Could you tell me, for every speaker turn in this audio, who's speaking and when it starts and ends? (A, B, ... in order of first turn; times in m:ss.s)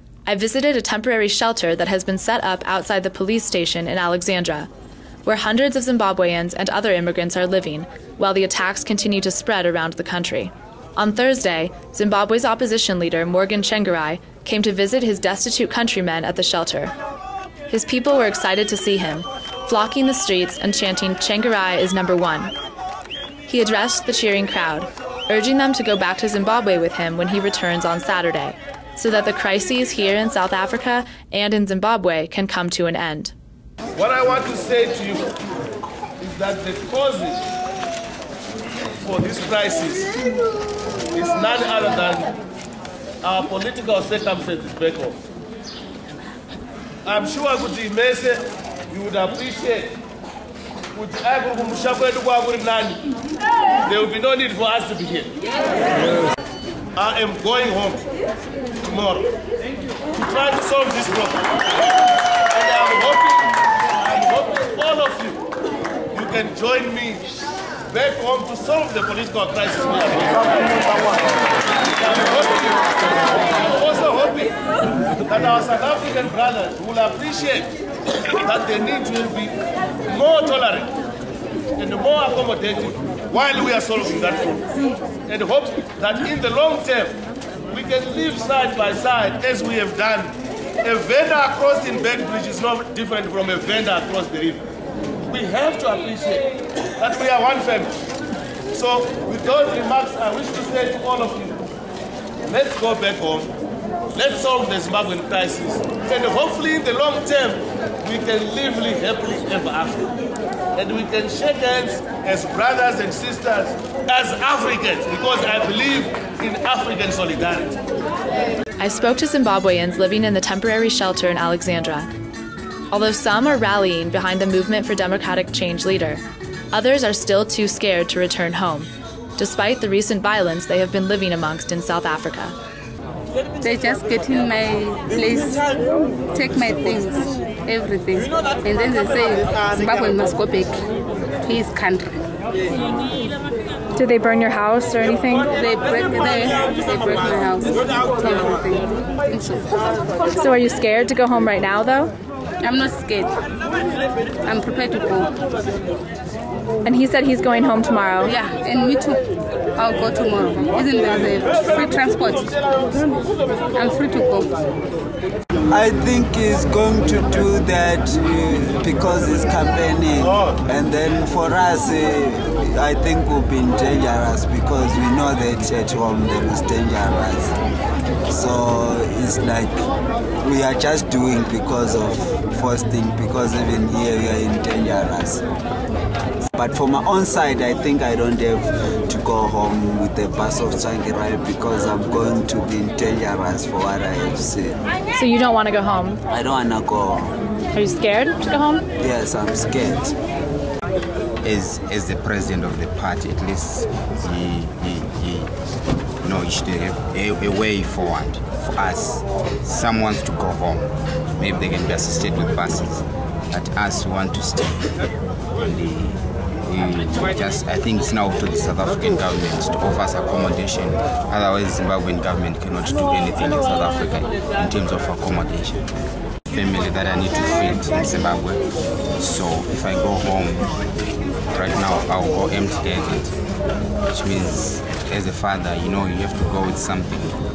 0:00.2-0:04.7 A
0:05.2-0:16.9 A
0:17.7-0:22.5 A
0:23.5-0:33.3 A
0:33.9-0:35.3 B
0:36.2-0:37.4 B
0:39.0-0:40.1 B
0:41.1-0:42.3 B
0:43.2-0:45.2 B
0:47.0-0:49.9 B
0:50.9-0:53.0 B
0:53.8-0:55.3 B
0:57.0-0:58.0 B
0:58.8-0:59.3 B
1:00.1-1:01.4 B
1:02.5-1:05.4 B
1:06.1-1:07.3 B
1:07.9-1:10.9 B
1:12.0-1:14.6 B
1:15.2-1:17.7 B
1:18.4-1:20.9 B
1:21.8-1:27.2 B
1:27.7-1:34.6 B
1:35.3-1:36.5 B
1:37.0-1:37.9 B
1:38.7-1:41.6 B
1:42.4-1:43.5 B
1:44.1-1:50.1 B
1:50.7-1:57.8 B
1:58.8-2:02.1 A
2:02.9-2:12.6 A
2:13.6-2:20.8 C
2:21.4-2:22.1 C
2:24.0-2:25.4 A
2:25.4-2:29.9 C
2:30.4-2:32.1 A
2:32.6-2:33.4 C
2:34.4-2:35.3 C
2:36.8-2:38.3 A
2:38.2-2:43.0 C
2:43.7-2:44.5 C
2:45.7-2:57.5 D
2:58.3-2:59.8 D
3:00.4-3:05.4 D
3:06.5-3:14.8 D
3:15.1-3:16.2 A
3:16.3-3:17.3 D
3:17.8-3:18.8 A
3:19.0-3:20.1 D
3:21.4-3:25.5 E
3:26.2-3:34.9 E
3:35.6-3:45.8 E
3:46.5-3:48.6 E
3:49.2-3:50.8 E
3:51.5-3:53.3 E
3:54.1-3:57.3 E